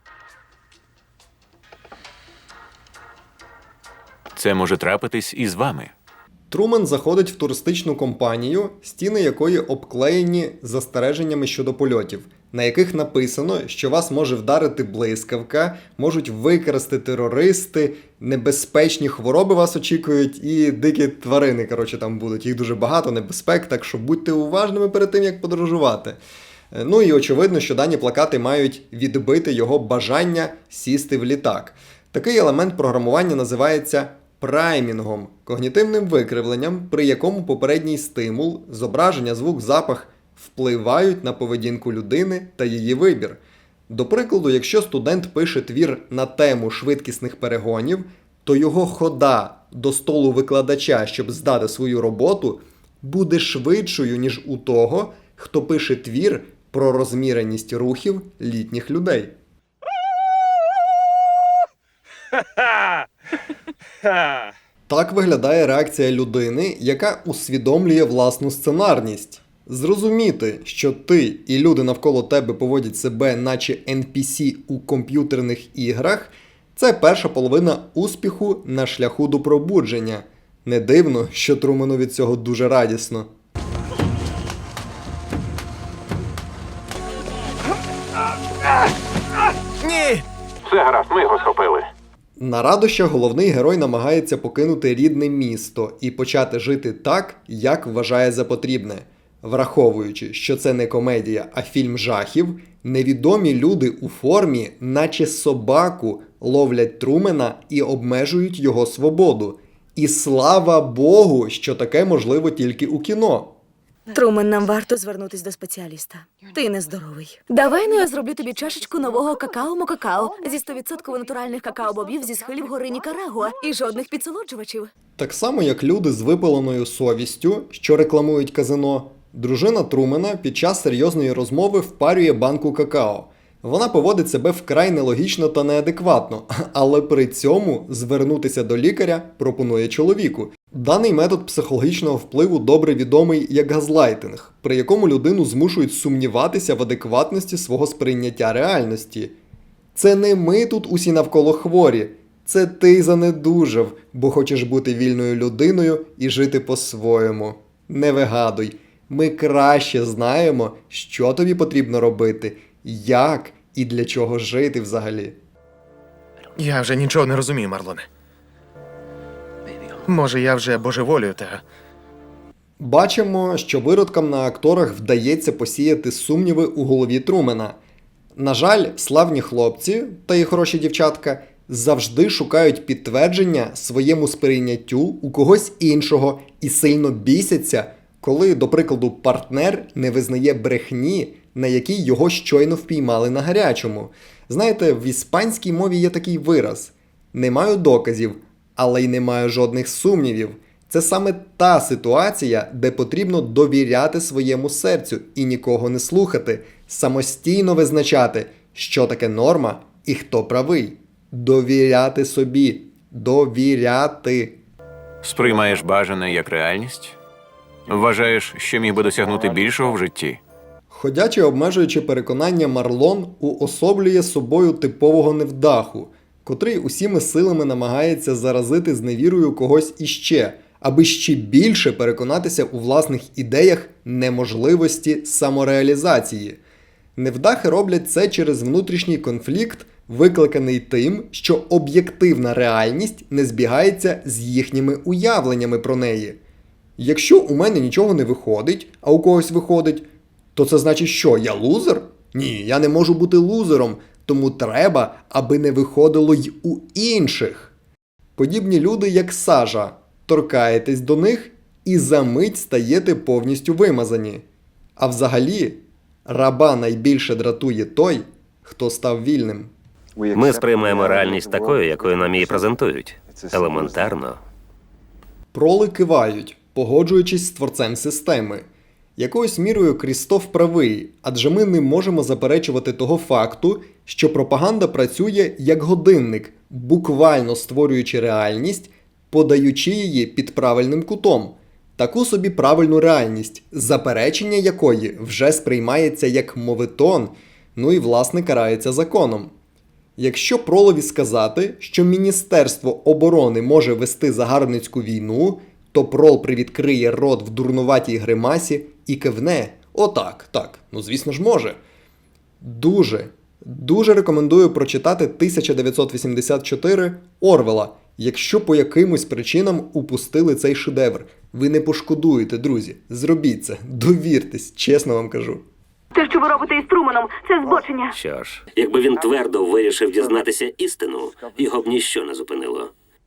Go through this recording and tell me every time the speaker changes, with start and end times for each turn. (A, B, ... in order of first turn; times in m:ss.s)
0:04.3-0:05.9 A
0:06.5-0:26.2 B
0:26.7-0:59.4 B
1:04.9-1:23.3 B
1:29.8-1:30.2 C
1:30.6-1:31.9 A
1:32.4-1:53.6 B
1:54.1-2:04.9 D
2:05.2-2:29.4 B
2:29.9-2:45.4 B
2:46.6-2:48.1 C
2:50.0-2:51.6 C
2:52.8-2:57.8 B
2:58.4-3:34.6 B
3:35.2-3:37.2 A
3:37.9-3:40.4 A
3:40.9-3:56.6 B
3:57.2-4:06.4 B
4:07.0-4:17.7 B
4:18.4-4:24.4 B
4:25.0-4:29.7 B
4:30.3-4:34.4 E
4:35.5-4:38.7 B
4:39.2-4:59.5 B
5:00.2-5:11.8 B
5:12.6-5:25.6 B
5:26.1-5:28.2 D
5:28.1-5:32.9 E